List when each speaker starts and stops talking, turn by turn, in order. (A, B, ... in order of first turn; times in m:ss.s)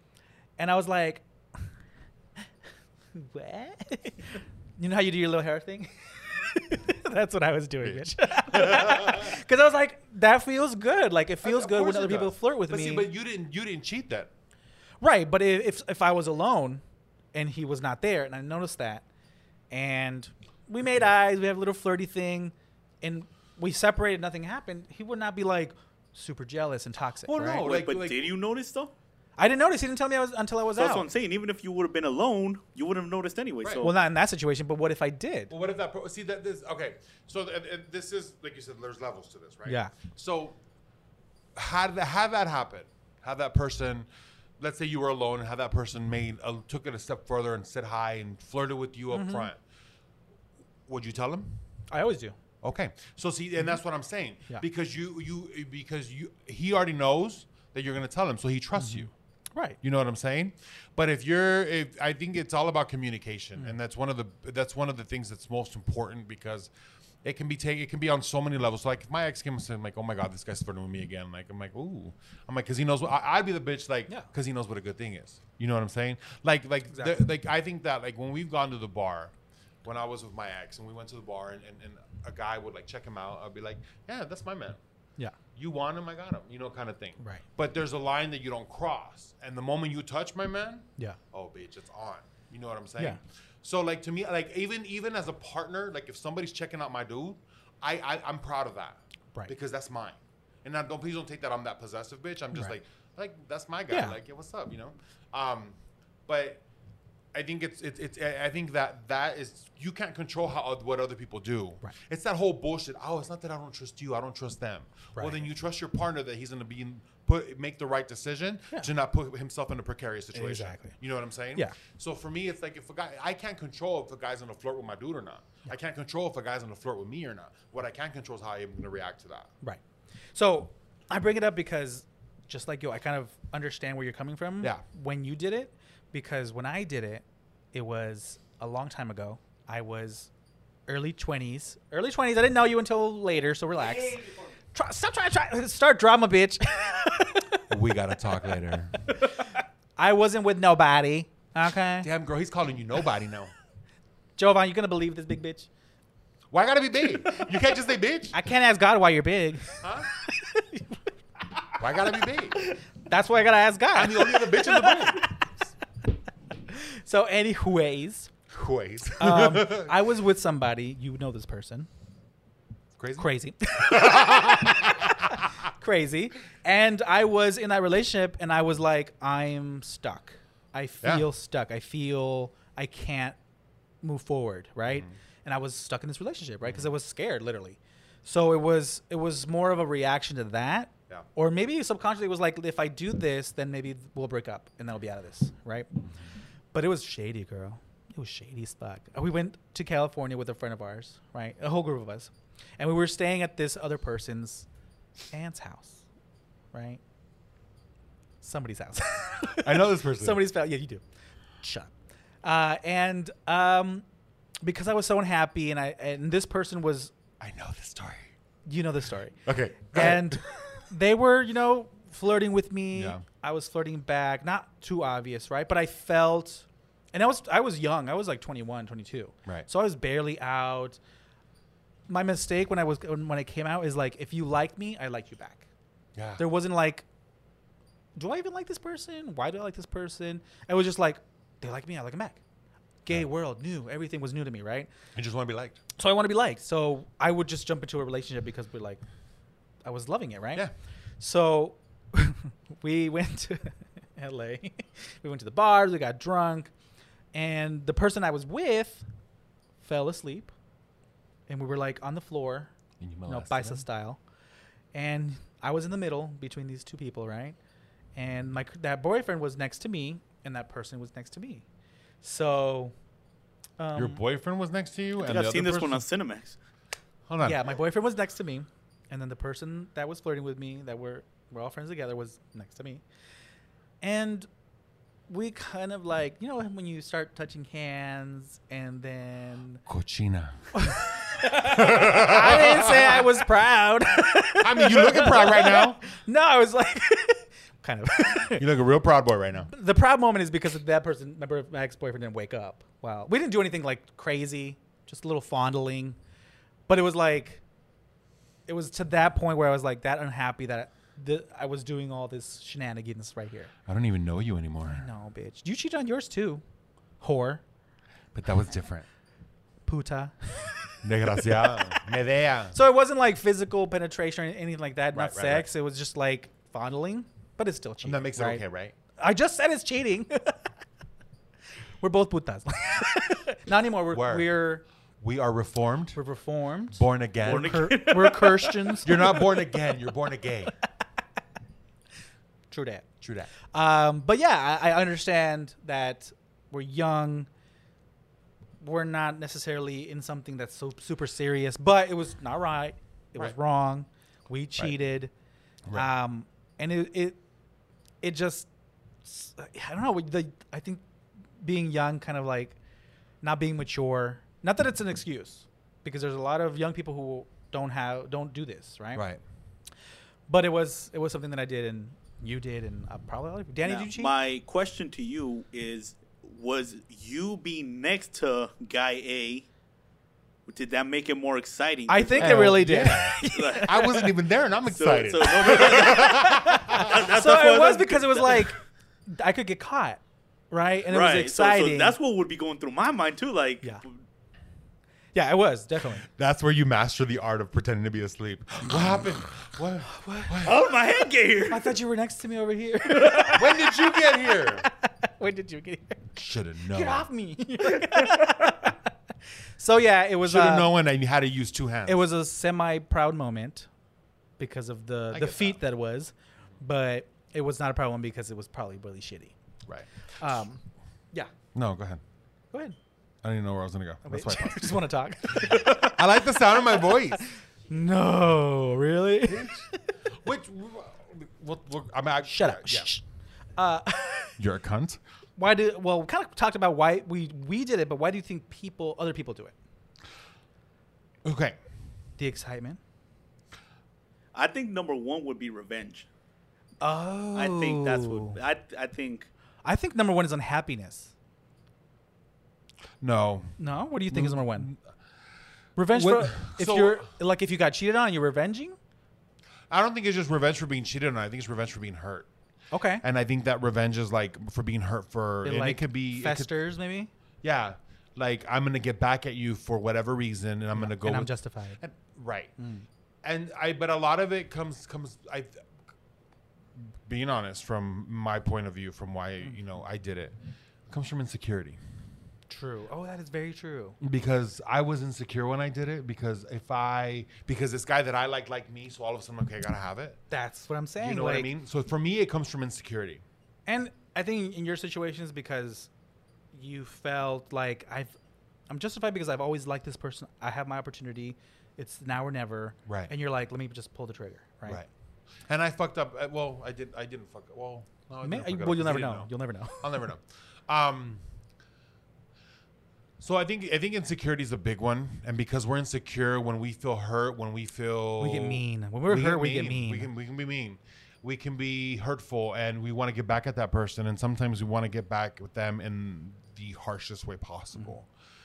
0:00.6-0:01.2 A
0:03.1-0:13.1 A
0:07.8-0:09.3 B
0:11.4-0:14.3 B
0:15.0-0:16.8 A
0:17.3-0:19.0 A
0:19.7-0:27.6 A
0:27.3-0:28.3 B
0:27.4-0:28.9 C
0:29.4-0:31.0 A
0:30.8-0:33.9 C
0:33.6-0:33.9 B
0:33.8-0:35.5 A
0:35.5-0:40.6 B
0:39.6-0:39.9 A
0:41.6-0:44.1 B
0:44.6-0:49.6 B
0:49.1-0:49.5 A
0:50.9-0:51.6 B
0:51.9-0:52.4 A
0:52.6-0:59.1 B
0:58.8-0:59.8 A
0:59.8-1:06.7 B
1:07.2-1:24.8 B
1:16.9-1:17.2 A
1:25.6-1:46.6 B
1:43.9-1:44.2 A
1:47.3-2:09.5 B
1:55.1-1:55.4 A
2:00.3-2:00.9 A
2:10.3-2:20.3 A
2:20.9-2:27.6 A
2:27.7-2:29.1 B
2:29.1-2:32.1 A
2:32.0-2:33.5 B
2:34.4-2:35.7 A
2:36.5-2:38.4 B
2:38.3-2:41.0 A
2:39.8-2:40.1 B
2:41.8-2:42.6 B
2:42.6-2:45.4 A
2:43.9-2:45.3 B
2:46.7-2:48.3 A
2:48.5-2:49.9 B
2:49.2-2:51.9 A
2:53.0-2:55.4 B
2:53.2-3:03.4 A
3:01.0-3:01.3 B
3:04.0-3:15.9 A
3:06.6-3:06.9 B
3:16.7-3:24.7 A
3:25.3-3:26.0 A
3:26.7-3:27.0 A
3:28.4-3:31.0 A
3:29.6-3:30.4 B
3:31.6-3:31.9 A
3:32.4-3:34.0 A
3:34.6-3:37.1 A
3:37.4-3:38.3 B
3:38.6-3:51.0 A
3:39.4-3:40.4 B
3:42.9-3:43.2 B
3:52.1-3:55.7 A
3:56.2-3:56.4 B
3:56.4-3:57.0 A
3:58.2-4:02.4 A
4:03.0-4:04.9 A
4:05.1-4:05.8 B
4:06.0-4:09.0 A
4:09.8-4:10.7 A
4:11.2-4:16.7 A
4:17.3-4:19.0 A
4:19.8-4:20.5 A
4:21.5-4:22.7 A
4:23.0-4:23.8 B
4:23.2-4:24.2 A
4:24.9-4:27.6 A
4:28.1-4:31.6 A
4:32.2-4:32.9 A
4:33.8-4:34.2 A
4:33.9-4:36.0 B
4:35.2-4:36.6 C
4:37.3-4:37.7 B
4:37.4-4:43.0 A
4:44.0-4:44.5 A
4:45.3-4:49.8 A
4:49.9-4:53.3 B
4:50.7-4:58.7 A
4:54.5-4:56.0 B
4:58.6-4:59.7 B
4:59.6-5:06.2 A
5:06.9-5:07.6 A
5:08.7-5:13.7 A
5:13.9-5:15.0 B
5:14.8-5:16.6 A
5:17.2-5:17.6 A
5:18.3-5:19.0 B
5:19.8-5:22.0 A
5:21.0-5:22.8 B
5:22.7-5:28.6 A
5:25.1-5:25.7 B
5:28.0-5:28.9 B
5:29.2-5:30.6 A
5:32.0-5:34.8 A
5:34.1-5:34.5 B
5:35.2-5:36.2 B
5:36.1-5:39.5 A
5:36.9-5:37.9 B
5:37.4-5:39.0 C
5:39.0-5:40.7 B
5:42.7-5:43.0 A
5:43.2-5:43.5 B
5:43.7-5:47.5 A
5:48.8-5:55.3 A
5:55.9-5:57.4 A
5:58.2-5:58.7 A
5:59.2-6:01.0 A
6:01.6-6:02.8 A
6:03.4-6:09.2 A
6:09.1-6:09.4 B
6:10.5-6:14.3 A
6:13.8-6:19.6 C
6:20.7-6:22.8 C
6:22.1-6:24.3 A
6:22.4-6:27.2 B
6:23.4-6:24.0 C
6:24.9-6:28.7 C
6:25.6-6:32.2 A
6:31.1-6:34.0 C
6:35.3-6:36.2 A
6:36.2-6:40.8 B
6:40.0-6:40.7 A
6:40.6-6:42.0 C
6:41.7-6:46.4 A
6:43.5-6:44.9 B
6:46.4-6:47.3 B
6:46.9-6:49.1 A
6:48.0-6:48.5 C
6:49.8-6:50.9 A
6:50.4-6:52.2 B
6:52.0-6:53.9 A
6:54.6-6:59.5 A
6:55.3-6:55.8 B
7:00.4-7:01.5 A
7:01.7-7:02.2 B
7:02.7-7:03.0 A
7:03.4-7:07.4 B
7:04.2-7:10.2 A
7:09.4-7:13.1 B
7:12.4-7:13.2 A
7:13.8-7:14.5 A
7:14.6-7:15.2 B
7:15.6-7:19.7 A
7:21.4-7:21.8 B
7:22.4-7:23.0 A
7:24.5-7:26.3 C
7:27.0-7:28.6 A
7:27.5-7:29.5 C
7:29.8-7:31.3 A
7:33.2-7:35.0 B
7:33.8-7:34.9 A
7:36.0-7:39.0 A
7:36.1-7:37.3 B
7:39.9-7:42.5 B
7:42.9-7:43.2 A
7:43.2-7:46.7 B
7:45.6-7:47.3 A
7:47.6-7:52.7 B
7:50.9-7:52.0 A
7:52.8-7:53.1 A
7:53.4-7:55.8 B
7:57.0-8:00.6 B
8:01.1-8:02.0 B
8:02.7-8:04.2 A
8:04.2-8:10.4 B
8:10.5-8:11.7 A
8:11.2-8:13.4 B
8:13.9-8:16.1 A
8:16.7-8:18.4 A
8:18.9-8:25.0 A
8:23.1-8:23.3 B
8:25.6-8:31.4 B
8:28.4-8:30.2 A
8:33.4-8:48.3 B
8:38.4-8:40.3 A